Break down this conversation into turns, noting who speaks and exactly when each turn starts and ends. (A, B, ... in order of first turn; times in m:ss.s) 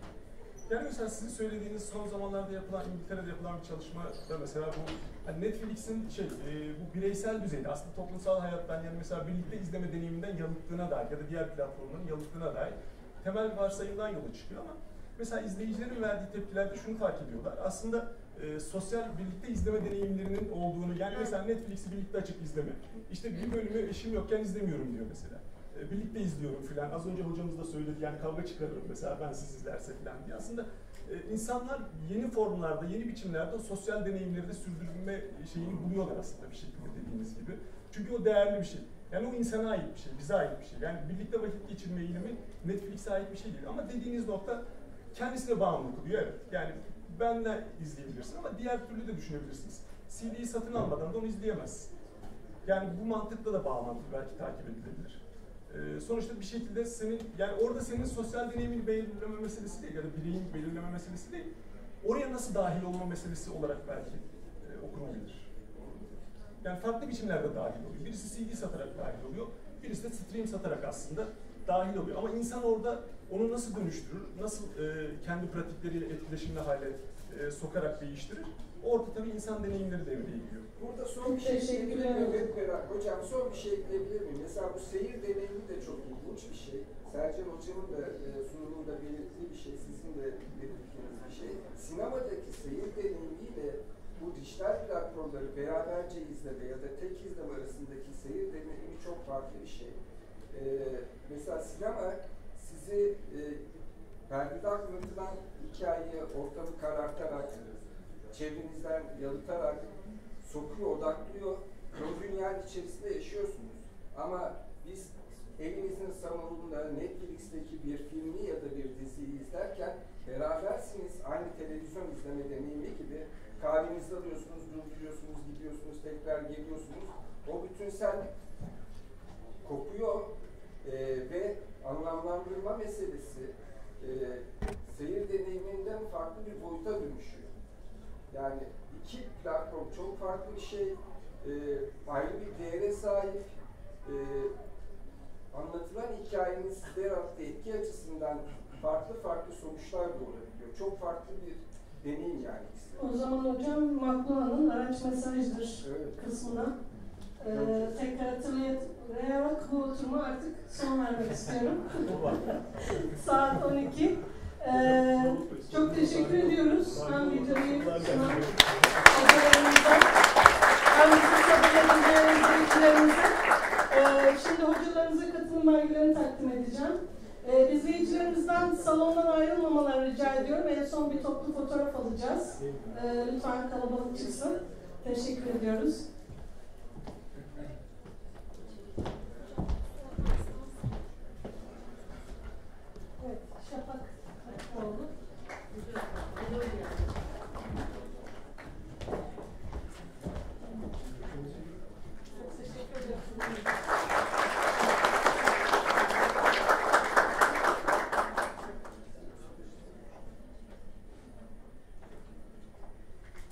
0:00.7-0:44.6 A
0:45.1-0:51.9 A
0:52.6-1:05.5 A
1:06.6-1:20.7 A
1:20.8-1:40.0 B
1:21.2-1:22.4 C
1:40.5-1:43.6 B
1:44.3-1:47.8 B
1:48.3-2:08.3 B
2:09.6-2:17.5 B
2:18.3-2:23.4 B
2:24.0-2:24.5 B
2:25.5-2:33.2 B
2:33.0-2:36.8 C
2:35.8-2:36.2 B
2:37.4-2:48.5 C
2:37.5-2:38.0 B
2:42.0-2:43.1 A
2:44.6-2:49.4 A
2:49.1-2:50.1 C
2:50.9-3:06.1 C
3:13.2-3:15.1 C
3:16.4-3:16.8 C
3:22.3-3:23.6 C